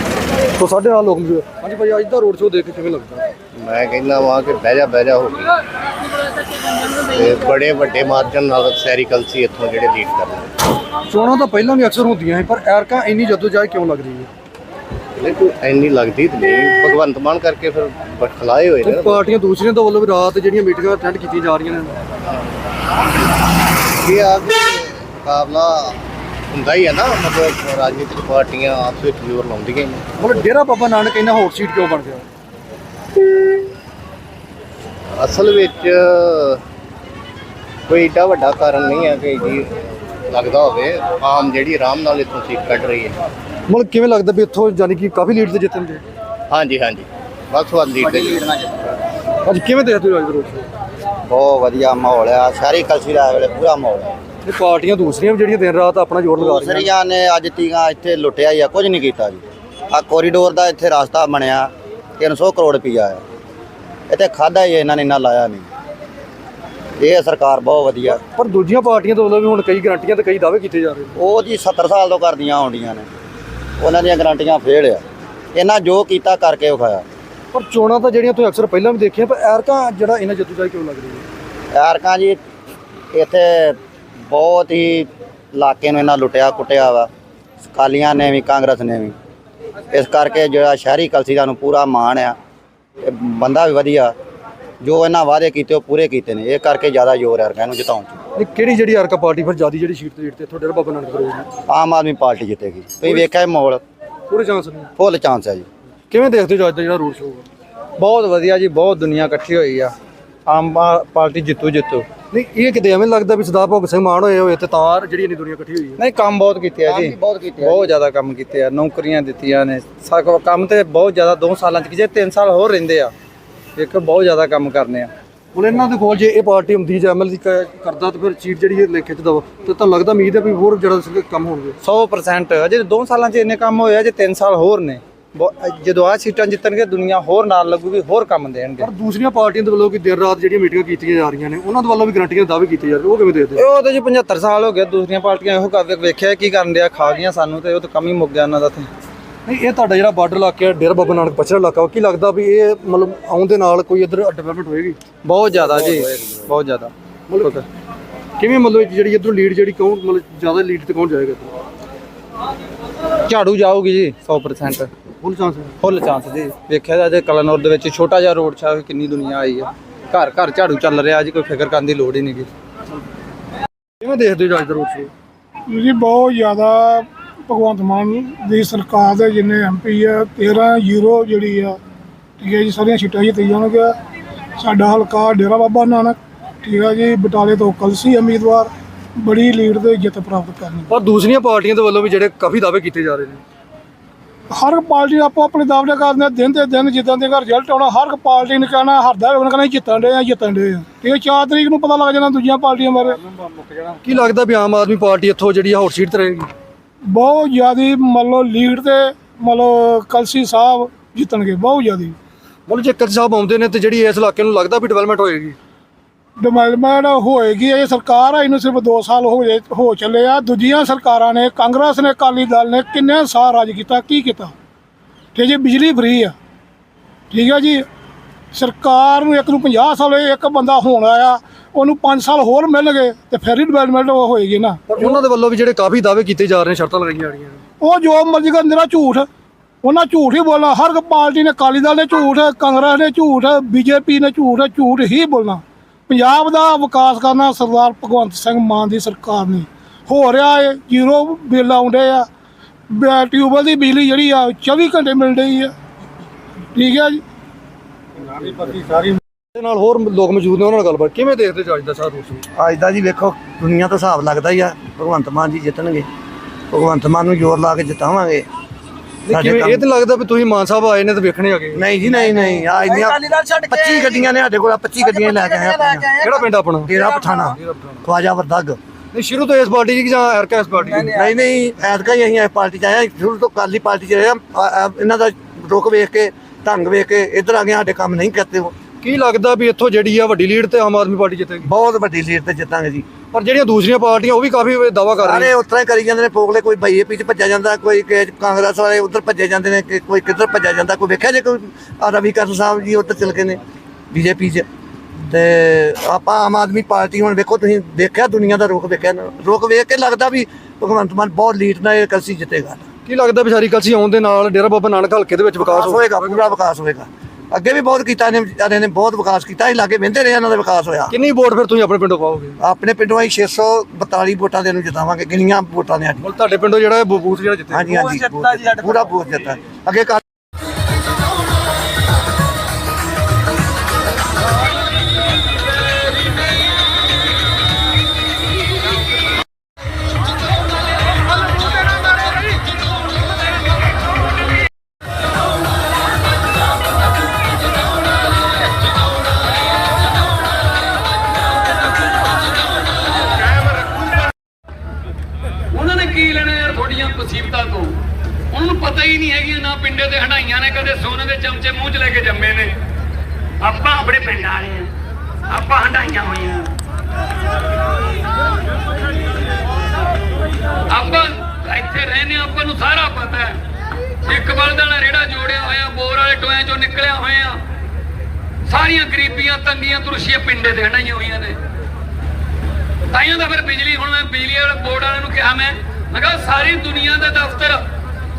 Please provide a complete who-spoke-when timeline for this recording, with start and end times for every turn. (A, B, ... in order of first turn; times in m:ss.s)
0:00.6-0:03.2 A
0:03.6-0:05.5 B
0:06.9-0:10.5 B
0:11.1-0:14.3 A
0:15.2-0:19.3 B
0:18.8-0:22.0 A
0:24.0-0:26.0 B
0:26.5-0:30.5 B
0:30.2-0:32.3 A
0:35.2-0:36.6 B
0:37.9-0:39.7 B
0:40.3-0:43.2 B
0:43.7-0:46.0 A
0:46.5-0:48.5 B
0:48.1-0:48.7 C
0:49.4-0:50.7 A
0:51.3-0:54.2 C
0:54.4-0:56.9 A
0:56.4-1:03.2 C
1:04.1-1:05.7 C
1:07.0-1:08.2 C
1:08.1-1:11.1 A
1:11.2-1:13.1 C
1:13.8-1:15.0 C
1:15.5-1:17.1 C
1:17.5-1:21.2 A
1:21.7-1:22.4 C
1:23.1-1:27.1 C
1:27.7-1:29.2 C
1:29.9-1:32.4 C
1:33.0-1:34.1 C
1:34.8-1:38.2 C
1:38.3-1:41.5 A
1:41.7-1:43.8 C
1:43.0-1:43.3 A
1:44.3-1:44.9 A
1:45.0-1:45.7 C
1:46.1-1:47.4 A
1:48.0-1:49.9 D
1:50.5-1:52.1 D
1:52.3-1:56.0 A
1:56.0-2:03.1 D
1:56.8-1:58.0 C
2:03.8-2:05.1 D
2:05.5-2:11.8 A
2:11.8-2:18.9 D
2:18.8-2:23.6 A
2:23.5-2:28.9 D
2:29.4-2:35.0 A
2:35.2-2:36.9 D
2:35.5-2:36.5 C
2:37.3-2:37.6 A
2:38.4-2:41.5 A
2:43.3-2:44.9 D
2:45.2-2:45.8 A
2:45.8-2:52.5 D
2:54.0-2:55.1 A
2:55.7-3:01.8 E
3:02.4-3:03.9 E
3:04.6-3:10.9 E
3:10.9-3:13.4 A
3:14.5-3:23.1 E
3:23.1-3:24.3 D
3:24.0-3:26.5 A
3:27.1-3:32.2 E
3:32.7-3:35.6 A
3:36.4-3:44.5 E
3:45.3-3:46.3 E
3:47.3-3:47.8 E
3:48.5-3:55.1 E
3:54.9-3:57.6 A
3:57.8-3:59.3 E
3:59.8-4:12.3 E
4:12.9-4:15.7 E
4:16.8-4:17.2 E
4:19.5-4:22.4 A
4:22.6-4:26.1 F
4:26.7-4:28.5 F
4:29.2-4:31.8 A
4:29.3-4:29.8 F
4:31.7-4:36.2 F
4:36.2-4:36.9 A
4:36.9-4:38.8 F
4:37.5-4:38.0 A
4:39.1-4:41.1 A
4:40.9-4:48.8 F
4:49.0-4:51.7 A
4:51.6-4:53.1 F
4:53.3-4:55.5 A
4:55.2-5:03.6 F
5:04.1-5:04.7 F
5:05.3-5:12.8 F
5:13.1-5:16.4 A
5:15.6-5:21.1 F
5:21.1-5:22.6 A
5:22.6-5:26.2 F
5:26.2-5:28.0 A
5:27.7-5:30.2 F
5:55.7-5:58.0 G
5:58.5-6:02.7 G
6:03.6-6:04.9 G
6:05.5-6:06.7 G
6:10.9-6:13.6 G
6:14.2-6:17.6 G
6:18.6-6:21.6 G
6:23.1-6:27.8 G